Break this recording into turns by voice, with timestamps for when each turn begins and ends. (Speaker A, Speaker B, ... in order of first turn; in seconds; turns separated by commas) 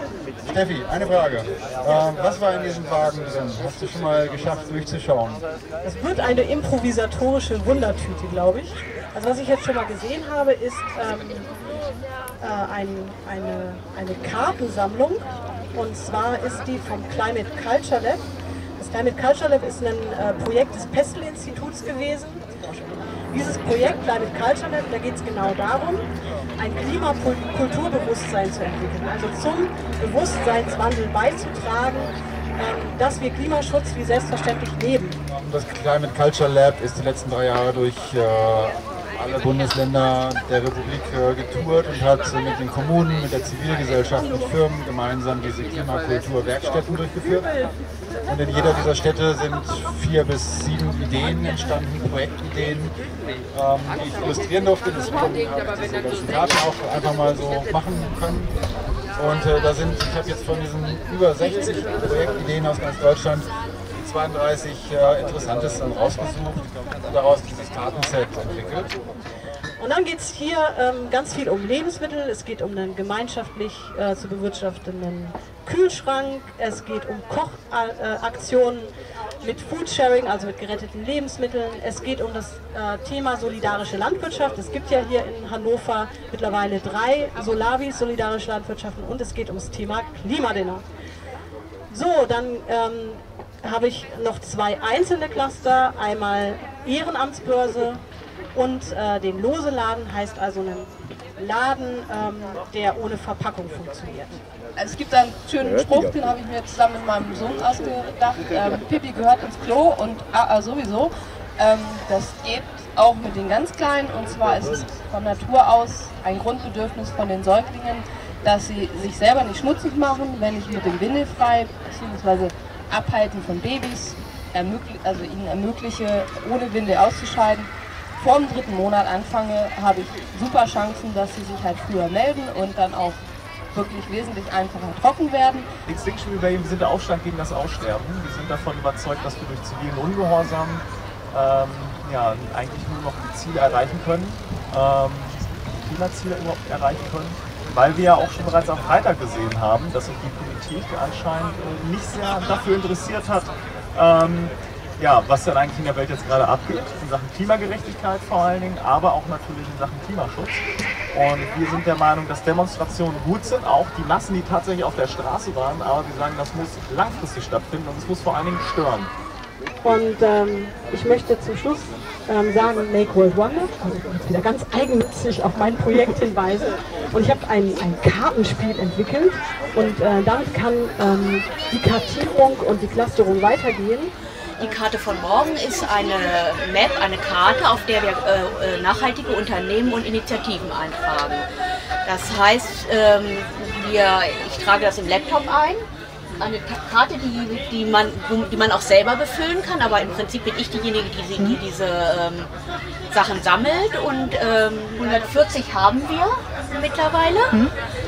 Speaker A: 0.5-5.4, Speaker B: 5.8-11.5, Speaker B: 12.4-18.3, Speaker B: 18.8-22.4, Speaker B: 23.3-26.1, Speaker B: 26.6-35.2, Speaker A: 35.4-47.5, Speaker A: 48.3-52.9, Speaker A: 53.5-58.5, Speaker A: 59.2-68.9, Speaker B: 69.8-90.8, Speaker B: 91.9-98.0, Speaker B: 98.5-104.4, Speaker C: 104.8-133.2, Speaker C: 133.8-135.7, Speaker D: 135.9-169.1, Speaker B: 169.8-184.1, Speaker E: 184.6-191.5, Speaker E: 192.1-202.5, Speaker E: 203.1-207.7